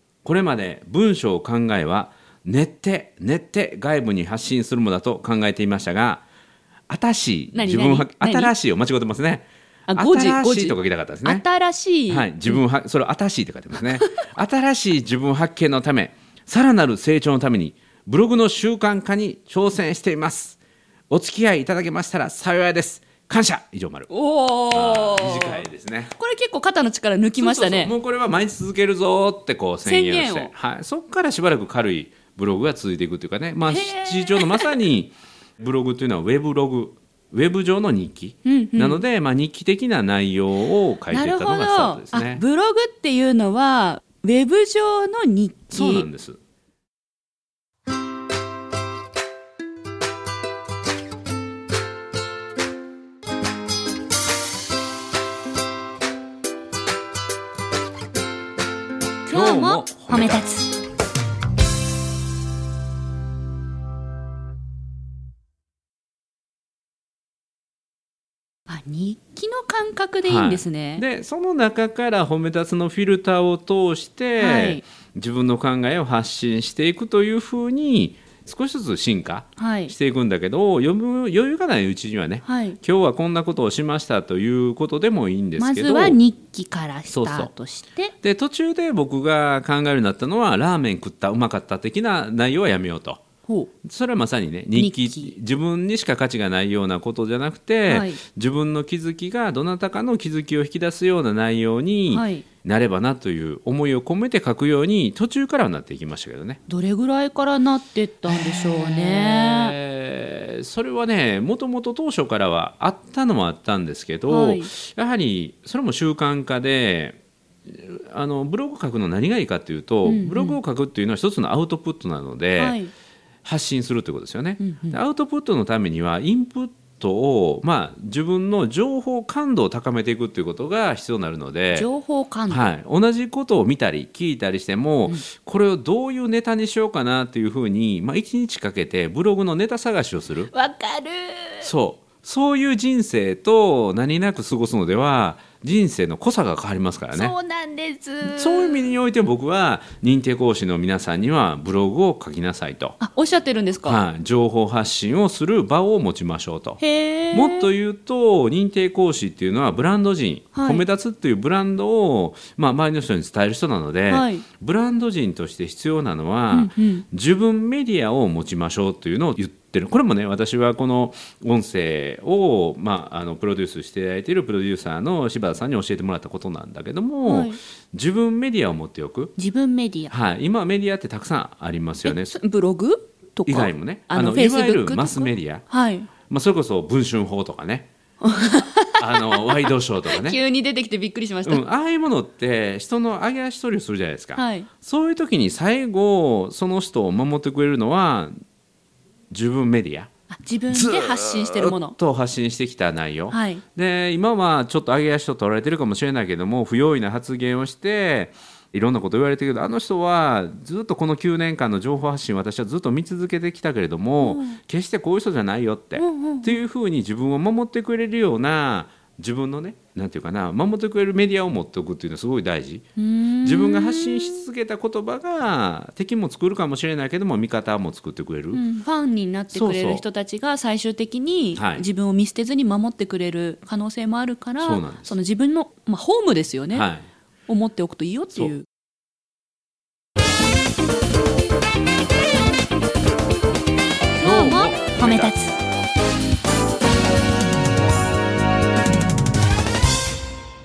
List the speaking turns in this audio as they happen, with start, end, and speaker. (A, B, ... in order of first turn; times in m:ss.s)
0:00.2-0:06.2 A
0:06.9-0:11.4 A
0:07.5-0:08.5 B
0:09.9-0:12.6 B
0:12.1-0:20.6 A
0:13.8-0:14.2 B
0:21.1-0:24.1 A
0:24.1-0:27.9 B
0:24.7-0:26.1 A
0:27.4-0:42.4 A
0:29.8-0:30.5 B
0:33.7-0:34.7 B
0:38.4-0:39.0 B
0:41.1-0:46.1 B
0:45.7-0:46.4 A
0:59.3-1:00.7 B
0:59.3-1:00.5 A
1:08.7-1:11.0 B
1:10.2-1:26.2 A
1:14.4-1:14.8 B
1:19.6-1:19.9 B
1:22.4-1:22.8 B
1:25.6-1:28.1 B
1:27.1-1:27.5 A
1:28.2-1:33.2 A
1:33.8-1:46.6 A
1:34.8-1:35.3 B
1:37.9-1:38.2 B
1:42.1-1:42.5 B
1:46.7-1:49.8 B
1:48.3-2:02.8 A
1:54.3-1:54.7 B
2:00.0-2:00.6 B
2:02.6-2:02.9 B
2:03.4-2:11.9 A
2:04.6-2:05.0 B
2:11.7-2:12.6 B
2:12.5-2:20.5 A
2:20.5-2:21.7 B
2:21.6-2:27.3 A
2:27.1-2:28.9 B
2:28.2-2:33.0 A
2:33.0-2:34.0 B
2:33.8-2:36.8 A
2:36.8-2:37.7 B
2:37.3-2:59.3 A
2:40.5-2:40.8 B
2:44.1-2:44.5 B
2:46.5-2:47.0 B
2:57.3-2:57.6 B
2:59.4-3:00.1 B
3:00.1-3:02.3 A
3:02.0-3:06.1 B
3:03.5-3:05.6 A
3:06.3-3:07.9 A
3:08.2-3:11.6 B
3:09.0-3:10.4 A
3:11.4-3:18.3 A
3:14.4-3:14.7 B
3:19.3-3:20.1 A
3:20.3-3:22.0 B
3:20.7-3:42.8 A
3:23.3-3:23.6 B
3:34.2-3:34.6 B
3:36.0-3:36.6 B
3:43.0-3:44.5 B
3:43.4-3:48.6 A
3:48.5-3:56.9 B
3:49.5-3:50.0 A
3:51.6-3:51.9 A
3:54.6-3:55.2 A
3:56.7-3:57.1 A
3:57.5-3:58.6 B
4:04.2-4:05.6 B
4:04.2-4:05.4 A